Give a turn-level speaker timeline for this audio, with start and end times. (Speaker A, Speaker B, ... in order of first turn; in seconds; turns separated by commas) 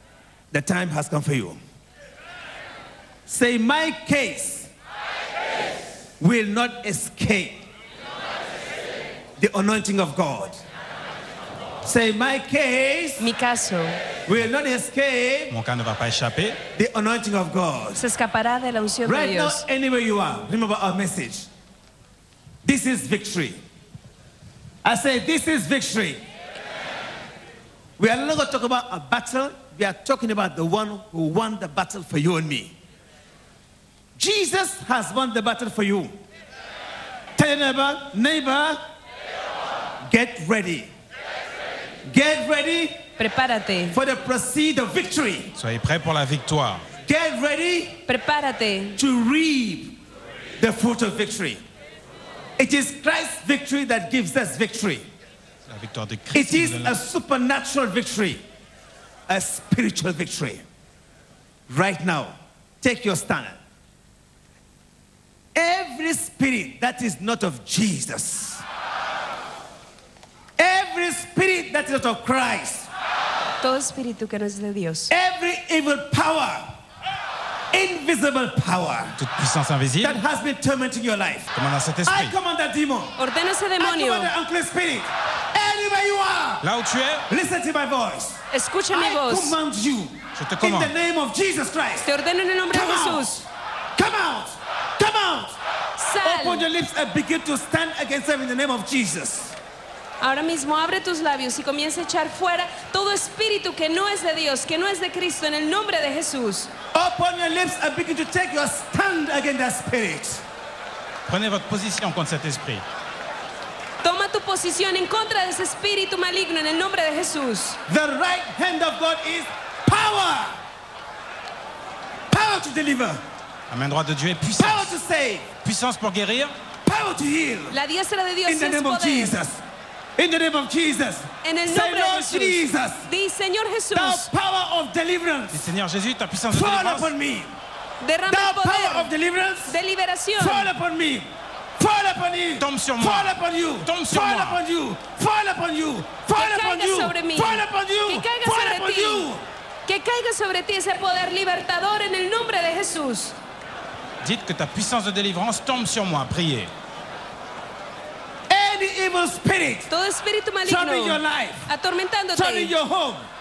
Speaker A: 0.5-1.6, Speaker A: 3.3-4.7, Speaker A: 6.2-7.7, Speaker A: 9.4-10.6, Speaker A: 11.8-13.2, Speaker B: 13.2-14.0, Speaker A: 14.3-15.5, Speaker C: 15.5-16.6, Speaker A: 16.8-18.0, Speaker B: 18.0-19.6, Speaker A: 19.1-21.5, Speaker A: 22.6-23.6, Speaker A: 24.8-26.2, Speaker A: 28.0-32.8, Speaker A: 34.2-36.1, Speaker A: 37.4-38.8, Speaker A: 40.1-40.9, Speaker A: 42.1-43.0, Speaker B: 43.2-44.0, Speaker A: 43.9-45.5, Speaker C: 45.6-46.9, Speaker A: 47.1-48.0, Speaker B: 48.1-49.0, Speaker A: 49.0-50.0, Speaker A: 50.6-51.6, Speaker A: 52.6-55.1, Speaker C: 55.7-57.0, Speaker A: 56.3-58.4, Speaker A: 59.3-60.6, Speaker A: 61.7-63.6, Speaker A: 65.5-68.6, Speaker A: 70.6-72.9, Speaker B: 73.6-75.1, Speaker A: 75.1-76.8, Speaker A: 77.7-79.2, Speaker C: 79.2-80.2, Speaker A: 80.0-81.5, Speaker C: 81.5-82.3, Speaker A: 82.0-83.2, Speaker B: 83.2-84.3, Speaker A: 83.8-86.6, Speaker C: 86.6-87.3, Speaker A: 87.3-88.4, Speaker B: 88.5-89.6, Speaker A: 88.9-92.1, Speaker C: 90.4-90.9, Speaker B: 92.0-93.5, Speaker A: 92.7-93.3, Speaker A: 94.0-95.6, Speaker B: 96.0-96.7, Speaker A: 96.2-99.6, Speaker B: 100.2-106.7, Speaker A: 106.9-110.4, Speaker C: 111.3-112.8, Speaker B: 114.0-117.8, Speaker A: 117.9-120.6, Speaker A: 122.3-123.2, Speaker C: 123.7-125.0, Speaker A: 124.6-125.5, Speaker C: 125.6-126.5, Speaker A: 126.8-127.8, Speaker B: 127.7-129.4, Speaker A: 128.5-129.6, Speaker A: 130.2-133.1, Speaker B: 131.4-134.3, Speaker A: 133.9-135.7, Speaker C: 135.5-137.1, Speaker A: 136.5-137.6, Speaker B: 138.0-139.1, Speaker A: 138.3-139.8, Speaker B: 139.7-140.7, Speaker A: 140.4-149.4, Speaker C: 142.6-144.6, Speaker B: 146.3-149.3, Speaker B: 149.9-153.4, Speaker C: 154.2-156.7, Speaker A: 158.5-159.9, Speaker B: 159.9-162.7, Speaker A: 160.7-161.7, Speaker A: 162.3-163.3